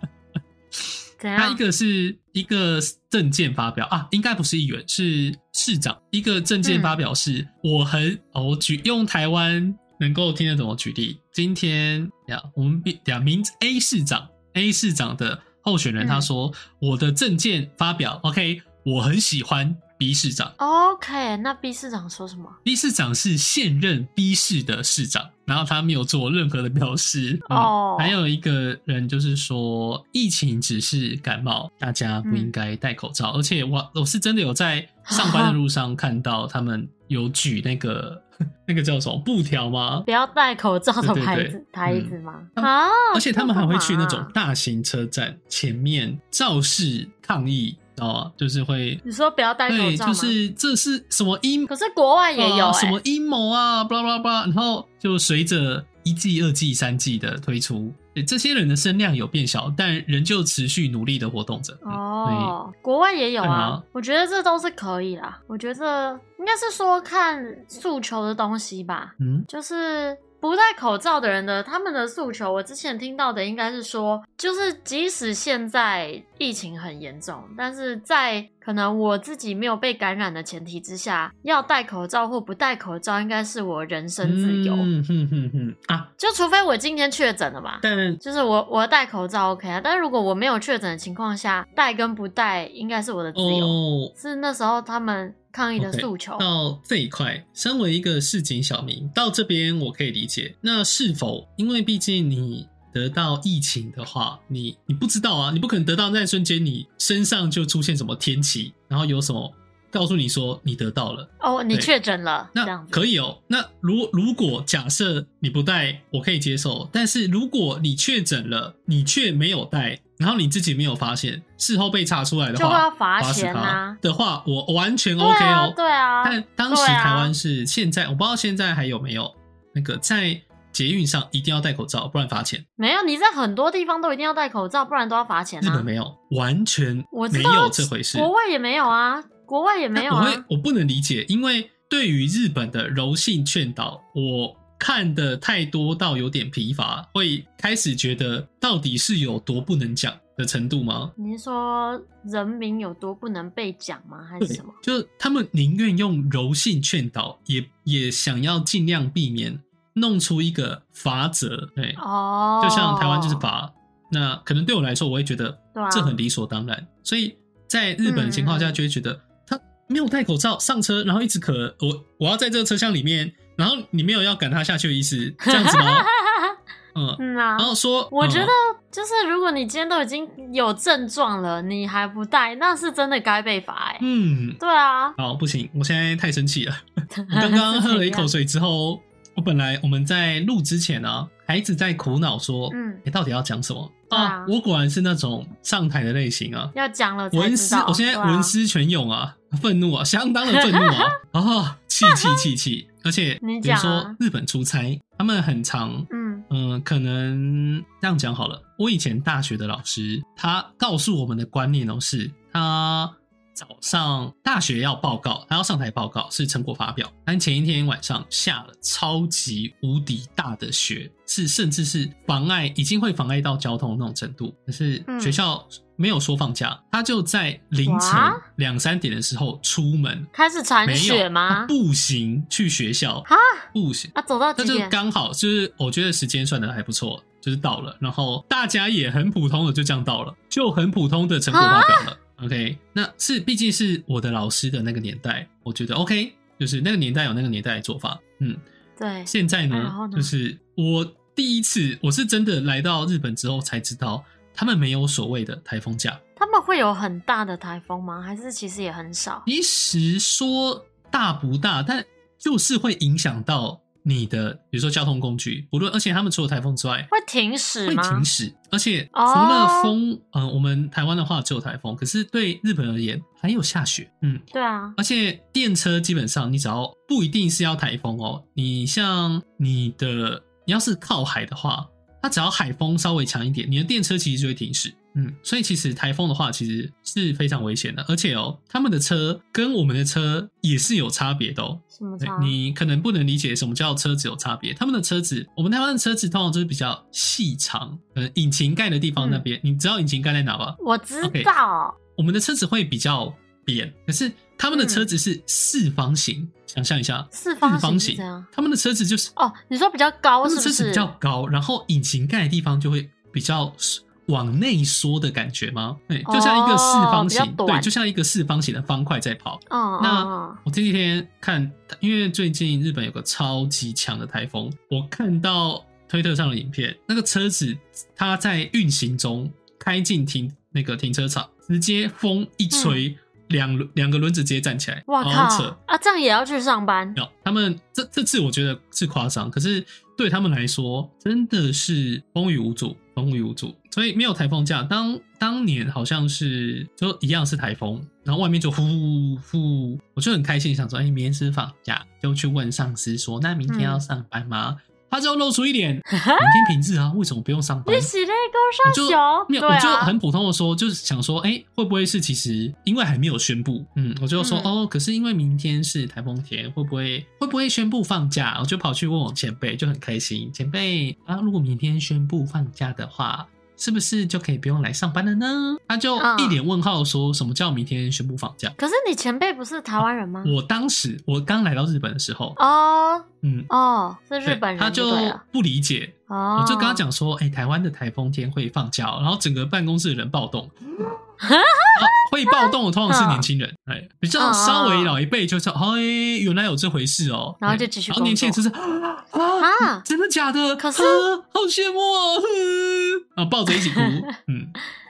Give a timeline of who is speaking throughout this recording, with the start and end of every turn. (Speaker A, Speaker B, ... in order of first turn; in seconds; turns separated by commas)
Speaker A: 0.7-20.5, Speaker B: 1.2-1.6, Speaker B: 6.6-7.0, Speaker B: 16.0-16.3, Speaker B: 20.6-22.6, Speaker A: 22.6-40.1, Speaker B: 27.5-28.1, Speaker B: 32.2-32.5, Speaker B: 35.1-35.5, Speaker B: 40.0-44.3, Speaker A: 41.0-49.0, Speaker B: 49.0-50.4, Speaker A: 49.7-51.7, Speaker B: 51.7-53.0, Speaker A: 52.4-62.5, Speaker B: 61.8-84.9, Speaker A: 63.4-63.8, Speaker A: 69.2-69.5, Speaker A: 84.2-86.1, Speaker B: 86.2-96.5, Speaker A: 87.8-88.2, Speaker A: 93.3-94.1, Speaker A: 95.8-111.9, Speaker B: 111.4-113.0, Speaker A: 112.5-132.6, Speaker B: 122.5-124.0, Speaker B: 125.2-127.3, Speaker B: 132.8-135.9, Speaker A: 135.6-138.3, Speaker B: 137.1-140.4, Speaker A: 139.9-151.1, Speaker B: 151.2-154.8, Speaker A: 154.4-162.0, Speaker B: 162.0-163.5, Speaker A: 162.6-176.1, Speaker B: 165.7-166.2, Speaker B: 168.0-168.8, Speaker B: 175.5-176.6, Speaker A: 176.9-178.5, Speaker B: 177.2-184.0, Speaker A: 184.0-184.6, Speaker B: 184.6-185.2, Speaker A: 185.2-196.7, Speaker B: 187.1-188.3, Speaker B: 192.7-193.0, Speaker B: 194.1-194.5, Speaker B: 196.7-198.5, Speaker A: 197.3-230.3, Speaker B: 200.5-201.1, Speaker B: 202.0-202.4, Speaker B: 203.4-204.2, Speaker B: 206.1-206.4, Speaker B: 225.1-225.4, Speaker B: 227.8-228.4, Speaker B: 230.3-231.7, Speaker A: 230.8-248.6, Speaker B: 233.3-234.9, Speaker B: 241.5-242.1, Speaker B: 249.0-250.3, Speaker A: 249.3-256.2, Speaker B: 256.4-259.4, Speaker A: 259.4-267.1, Speaker B: 267.1-268.3, Speaker A: 267.9-274.4, Speaker B: 269.1-269.9, Speaker B: 274.5-275.0, Speaker A: 274.9-301.5, Speaker B: 291.9-292.6, Speaker B: 299.2-299.4, Speaker B: 300.8-302.0, Speaker A: 302.1-309.3, Speaker B: 304.7-305.1, Speaker B: 307.3-308.5, Speaker B: 309.4-311.1, Speaker A: 310.4-335.8, Speaker B: 316.2-317.9, Speaker B: 319.7-320.6, Speaker B: 332.7-333.0, Speaker B: 335.1-337.2, Speaker A: 337.1-358.1, Speaker B: 353.7-354.0, Speaker B: 356.1-356.7, Speaker B: 357.9-360.1, Speaker A: 358.8-378.8, Speaker B: 364.4-364.7, Speaker B: 376.2-376.6, Speaker B: 378.8-380.6, Speaker A: 380.0-382.6, Speaker B: 382.6-385.4, Speaker A: 383.4-383.7, Speaker A: 384.4-391.2, Speaker B: 386.3-387.0, Speaker B: 391.4-393.5, Speaker A: 391.9-404.8, Speaker B: 394.4-395.2, Speaker B: 397.6-398.6, Speaker B: 399.6-400.0, Speaker B: 400.8-401.2, Speaker B: 403.7-404.3